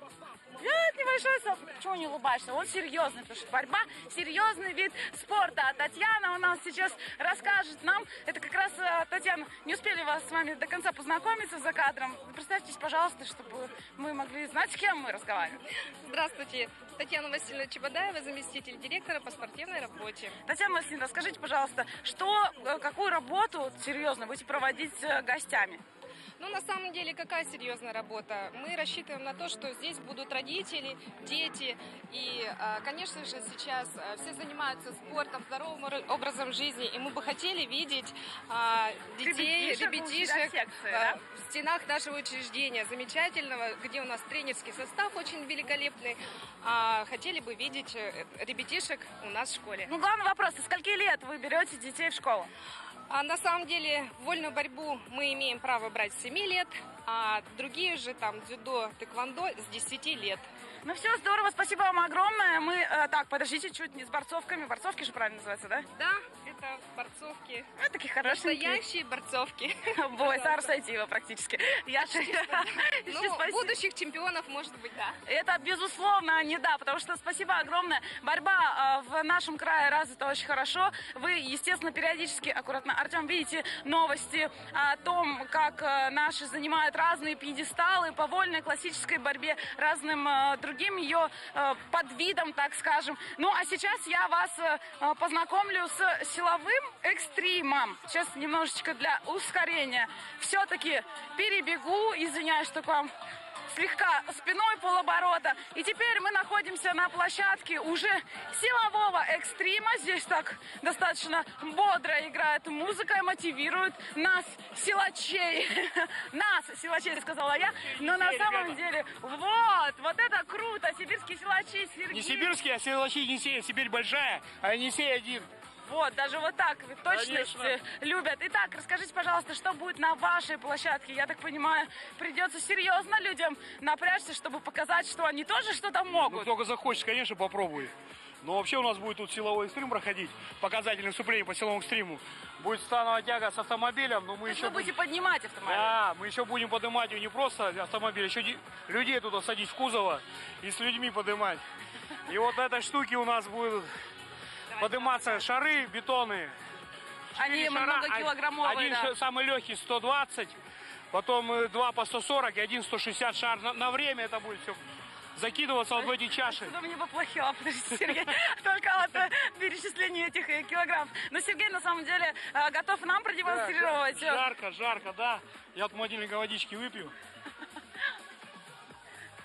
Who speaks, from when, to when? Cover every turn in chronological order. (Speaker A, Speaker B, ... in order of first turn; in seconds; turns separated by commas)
Speaker A: 0.6-15.6, Speaker B: 16.1-20.4, Speaker A: 20.5-25.8, Speaker B: 26.4-49.9, Speaker A: 39.2-41.2, Speaker A: 49.9-52.5, Speaker B: 53.1-60.5, Speaker A: 60.8-65.9, Speaker B: 66.0-67.7, Speaker A: 67.8-68.8, Speaker B: 68.2-70.7, Speaker A: 70.0-73.7, Speaker B: 72.0-75.2, Speaker A: 75.2-103.1, Speaker A: 103.7-122.5, Speaker C: 117.7-118.8, Speaker C: 122.1-125.5, Speaker A: 125.8-136.5, Speaker C: 127.1-127.8, Speaker C: 136.1-144.9, Speaker A: 144.5-146.0, Speaker C: 145.7-151.6, Speaker C: 152.2-153.9, Speaker A: 154.7-155.5, Speaker C: 154.8-156.6, Speaker A: 157.3-159.1, Speaker C: 157.4-160.6, Speaker C: 161.1-164.8, Speaker C: 165.3-166.8, Speaker A: 165.9-174.4, Speaker C: 173.5-177.2